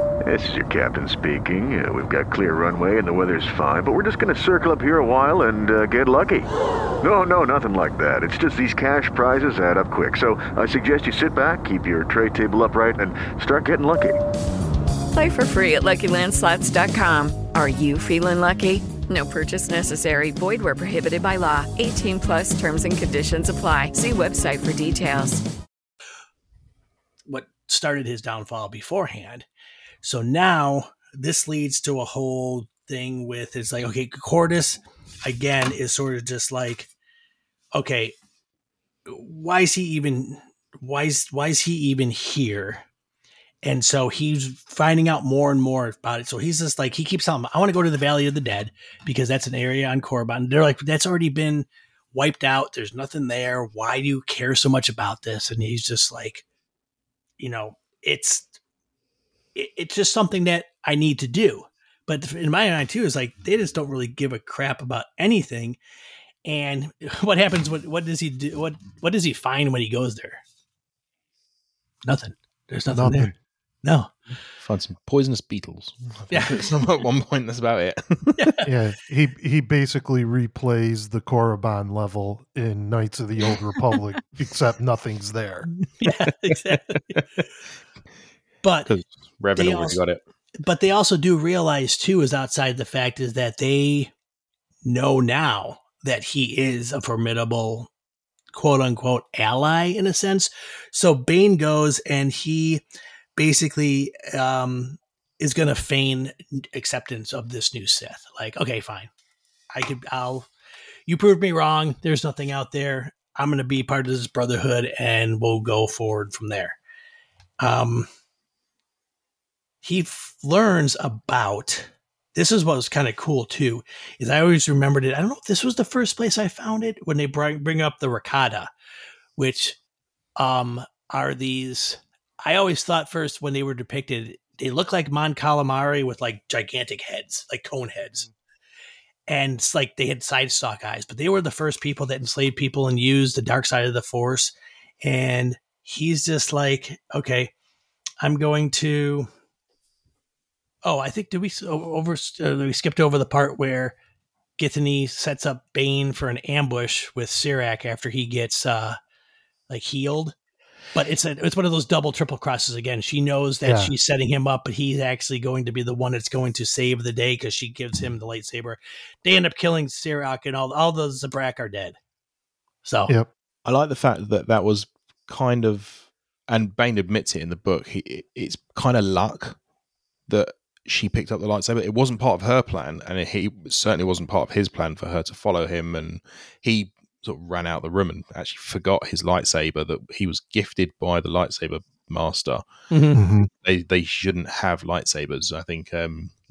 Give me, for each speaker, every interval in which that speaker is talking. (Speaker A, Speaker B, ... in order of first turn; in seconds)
Speaker A: 0.2-6.5, 7.0-14.2
Speaker B: 15.1-25.4
Speaker C: 27.3-29.4, 30.0-36.9, 37.7-38.1, 39.1-42.8, 43.6-56.4, 57.4-58.5, 59.5-65.8, 66.4-70.4, 72.0-73.3, 73.8-74.1, 76.3-76.7, 78.4-78.7, 86.0-87.1, 88.6-88.9, 89.5-90.0, 90.6-94.1, 94.8-97.9, 98.5-102.8, 103.3-109.1, 109.7-110.5, 111.1-116.8, 117.6-118.1, 119.8-128.7, 129.4-129.8, 130.4-138.3, 139.3-147.5, 148.2-149.3, 150.8-153.9, 154.6-159.0, 159.7-160.3, 160.9-171.9, 172.8-173.1, 192.9-193.2
Speaker D: 72.9-73.3, 78.6-85.7, 163.6-163.9, 193.2-193.5
Speaker E: 74.6-78.4, 86.9-87.2, 88.8-90.2, 173.6-179.6, 180.3-192.7, 193.6-196.3